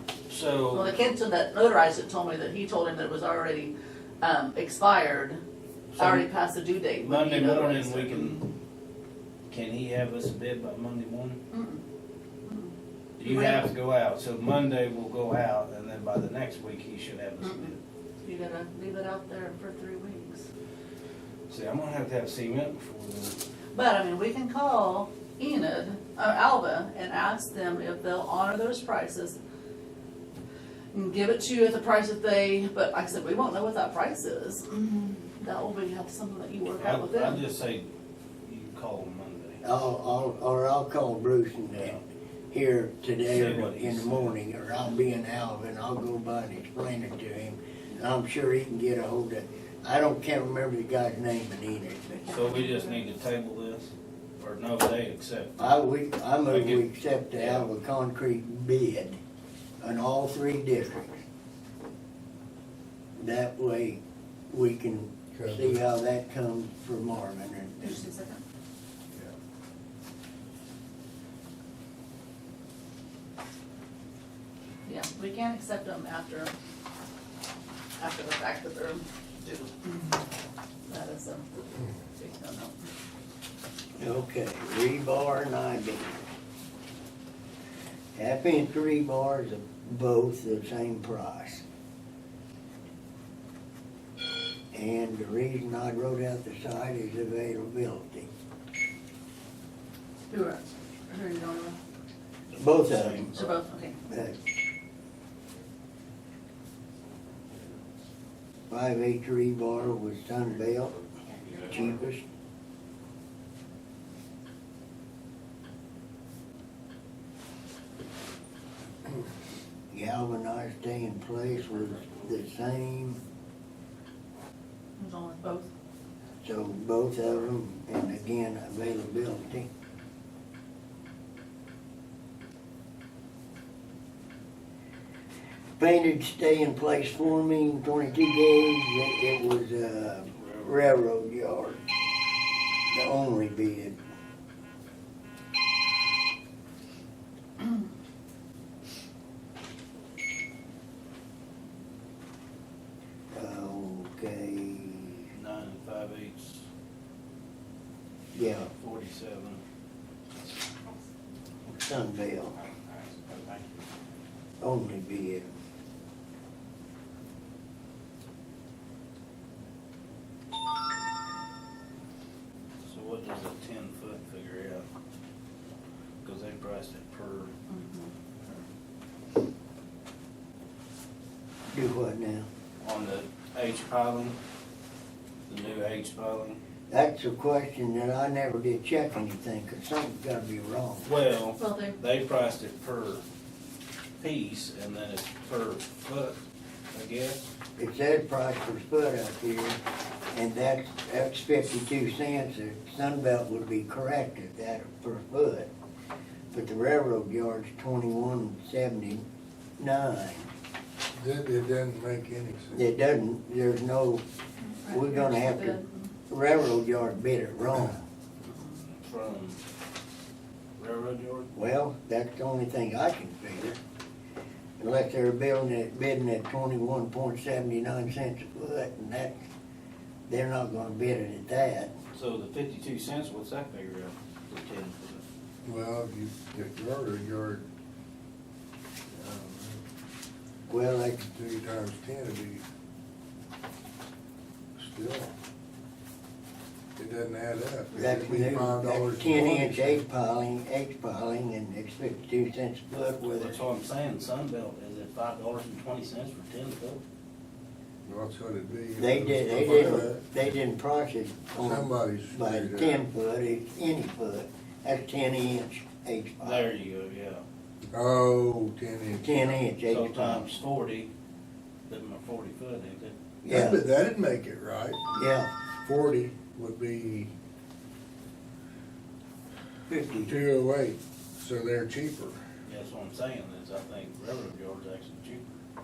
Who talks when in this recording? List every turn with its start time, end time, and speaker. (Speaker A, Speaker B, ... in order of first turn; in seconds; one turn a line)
Speaker A: 0.3-0.9
Speaker B: 0.7-5.4
Speaker A: 5.9-6.2
Speaker B: 6.0-8.4
Speaker A: 7.0-8.4
Speaker A: 9.5-11.4
Speaker B: 11.5-11.8
Speaker B: 12.4-13.6
Speaker A: 13.2-17.8
Speaker B: 17.4-20.4
Speaker A: 21.5-23.4
Speaker B: 23.7-29.4
Speaker B: 30.9-37.4
Speaker A: 36.8-37.9
Speaker A: 38.4-39.6
Speaker C: 39.6-42.0
Speaker A: 41.8-42.0
Speaker C: 42.5-52.5
Speaker A: 43.3-44.3
Speaker B: 52.2-53.0
Speaker A: 52.3-55.8
Speaker C: 55.6-59.2
Speaker A: 56.5-56.8
Speaker A: 57.3-57.7
Speaker C: 59.8-61.2
Speaker C: 63.1-68.1
Speaker D: 65.3-65.8
Speaker B: 67.8-68.4
Speaker B: 74.8-76.5
Speaker B: 78.0-80.2
Speaker B: 80.9-81.5
Speaker B: 82.0-82.8
Speaker C: 84.0-86.2
Speaker C: 88.1-91.6
Speaker C: 94.7-98.3
Speaker B: 100.3-101.8
Speaker A: 102.5-103.5
Speaker C: 102.5-103.3
Speaker B: 103.3-104.0
Speaker C: 104.1-104.3
Speaker C: 108.7-110.9
Speaker A: 111.3-111.7
Speaker C: 111.5-112.2
Speaker C: 119.9-123.2
Speaker B: 125.0-125.7
Speaker C: 126.4-129.7
Speaker C: 135.8-141.8
Speaker A: 140.3-140.9
Speaker C: 142.9-144.0
Speaker C: 153.3-155.3
Speaker A: 155.3-156.7
Speaker A: 158.3-159.6
Speaker C: 158.3-158.7
Speaker C: 161.7-162.6
Speaker A: 162.6-163.8
Speaker C: 164.6-165.5
Speaker A: 172.8-174.9
Speaker A: 176.2-177.5
Speaker B: 177.7-178.6
Speaker C: 181.7-182.5
Speaker A: 182.8-184.3
Speaker A: 185.5-186.6
Speaker C: 186.9-191.1
Speaker A: 191.0-193.2
Speaker B: 191.6-192.0
Speaker A: 194.2-196.4
Speaker A: 196.9-197.4
Speaker C: 197.8-199.8
Speaker C: 200.3-205.7
Speaker C: 206.5-209.2
Speaker C: 209.8-210.5
Speaker D: 211.1-212.8
Speaker C: 212.7-214.2
Speaker B: 214.6-216.1
Speaker C: 214.9-218.0
Speaker A: 218.8-219.6
Speaker A: 220.8-221.5
Speaker C: 221.5-223.8
Speaker C: 224.8-229.4
Speaker C: 230.3-231.9
Speaker A: 232.1-235.2
Speaker D: 235.6-237.7
Speaker D: 239.1-239.8
Speaker C: 240.7-241.2
Speaker D: 241.2-242.6
Speaker D: 244.8-245.3
Speaker D: 247.0-250.1
Speaker C: 247.9-253.6
Speaker A: 253.2-257.0
Speaker D: 258.1-260.4
Speaker C: 258.9-266.7
Speaker D: 261.6-263.0
Speaker A: 266.4-267.4
Speaker D: 267.9-269.6
Speaker C: 269.1-270.6
Speaker A: 269.9-271.1
Speaker A: 271.9-273.1
Speaker C: 273.4-273.8
Speaker D: 273.5-275.1
Speaker C: 275.1-275.5
Speaker D: 275.8-277.3
Speaker C: 279.9-280.3
Speaker D: 280.2-282.4
Speaker A: 282.7-285.5